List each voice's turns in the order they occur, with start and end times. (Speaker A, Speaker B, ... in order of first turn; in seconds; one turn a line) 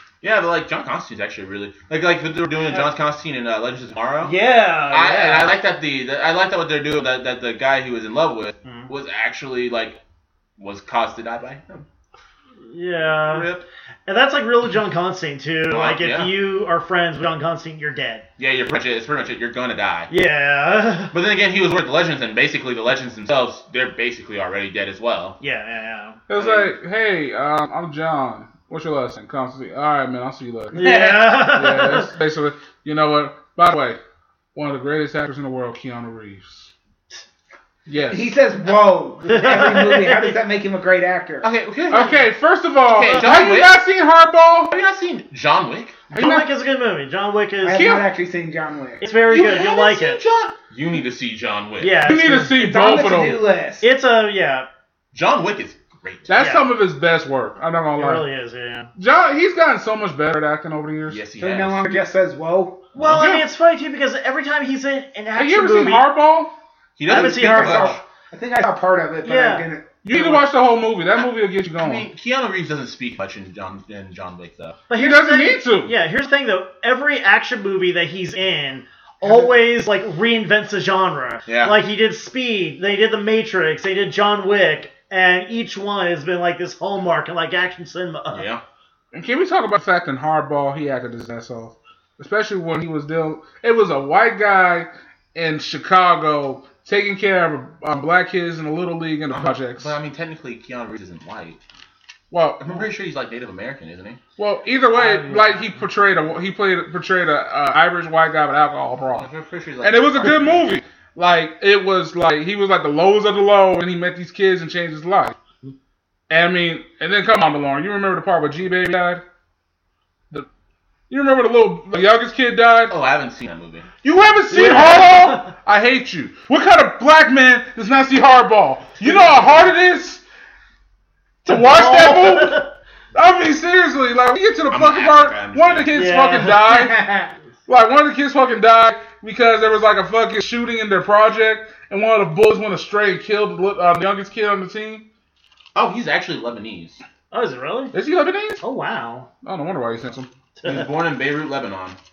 Speaker A: 0.2-4.3
Speaker B: 4.2-5.5
Speaker A: 4.9-10.0
Speaker B: 8.6-8.9
Speaker A: 10.6-11.8
Speaker B: 12.6-13.5
Speaker A: 13.0-13.6
Speaker B: 14.1-18.2
Speaker A: 15.7-16.3
Speaker A: 18.4-20.1
Speaker B: 20.1-21.1
Speaker A: 21.1-25.4
Speaker B: 25.4-26.2
Speaker C: 26.3-34.0
Speaker A: 26.3-26.7
Speaker B: 30.7-32.1
Speaker C: 34.5-36.7
Speaker C: 37.9-38.4
Speaker D: 38.1-41.5
Speaker B: 39.2-40.4
Speaker A: 41.4-42.3
Speaker C: 41.9-44.7
Speaker A: 42.8-43.8
Speaker A: 44.7-46.0
Speaker B: 46.1-47.9
Speaker C: 46.1-46.5
Speaker D: 47.6-49.0
Speaker C: 47.7-48.0
Speaker B: 49.0-50.2
Speaker A: 49.3-52.0
Speaker B: 51.8-52.5
Speaker C: 52.0-53.4
Speaker D: 52.4-53.9
Speaker B: 53.8-54.7
Speaker A: 55.1-56.3
Speaker C: 56.3-58.2
Speaker B: 56.4-56.7
Speaker B: 57.9-58.9
Speaker C: 59.0-61.2
Speaker A: 61.1-61.9
Speaker D: 61.4-62.9
Speaker A: 62.9-63.3
Speaker B: 63.0-66.1
Speaker C: 63.0-63.4
Speaker C: 65.3-66.5
Speaker A: 67.0-68.0
Speaker B: 67.0-68.0
Speaker D: 67.1-70.5
Speaker B: 69.2-69.7
Speaker C: 70.0-72.1
Speaker A: 71.8-74.8
Speaker B: 74.9-88.5
Speaker C: 74.9-75.9
Speaker D: 79.2-79.5
Speaker A: 81.5-81.7
Speaker A: 88.3-88.6
Speaker C: 89.1-99.9
Speaker A: 99.3-101.6
Speaker C: 102.3-102.9
Speaker A: 102.6-104.2
Speaker C: 104.4-109.3
Speaker B: 104.9-105.8
Speaker A: 109.1-110.7
Speaker C: 109.8-115.3
Speaker C: 116.3-119.2
Speaker C: 121.1-122.9
Speaker A: 122.9-123.9
Speaker C: 124.0-130.2
Speaker B: 124.5-125.5
Speaker C: 131.4-137.1
Speaker B: 131.5-132.7
Speaker A: 134.7-135.9
Speaker B: 135.9-137.3
Speaker C: 137.7-145.1
Speaker A: 145.7-147.0
Speaker B: 147.3-147.9
Speaker C: 147.9-148.6
Speaker B: 148.6-149.3
Speaker C: 149.4-150.3
Speaker B: 150.6-150.9
Speaker A: 150.6-152.0